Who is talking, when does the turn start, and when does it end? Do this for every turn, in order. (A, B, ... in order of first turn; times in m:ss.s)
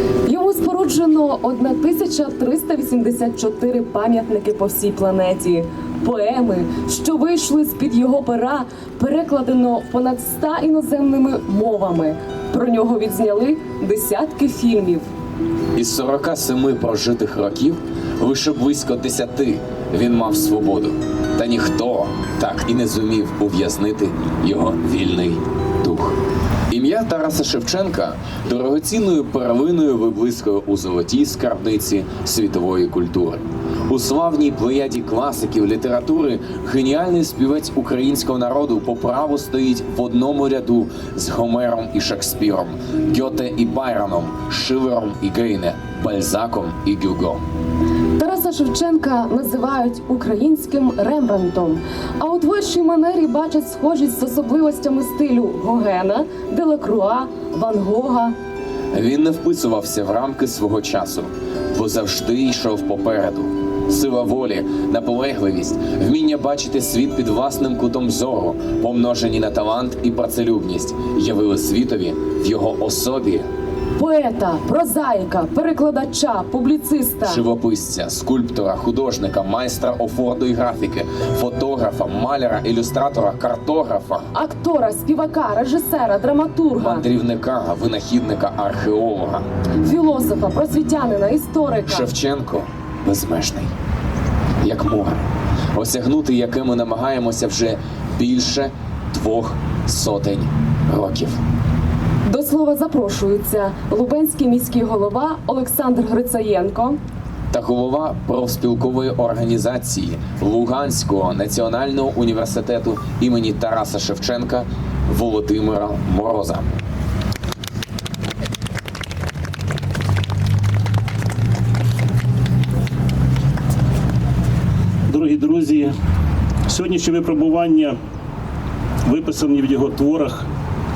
0:00.2-0:15.1 A
0:15.8-0:26.2 B
0:26.7-0:47.4 B
0:48.2-0:58.4 A
0:58.9-1:13.5 B
1:14.0-1:17.4 A
1:17.2-1:24.3 B
1:24.3-1:27.0 A
1:26.8-1:29.5 B
1:29.8-1:32.1 A
1:31.9-1:33.7 B
1:34.6-1:41.4 B
1:42.2-1:47.0 A
1:47.5-1:56.7 B
2:05.1-2:05.9 C
2:06.7-2:08.0 C
2:09.0-2:10.5 C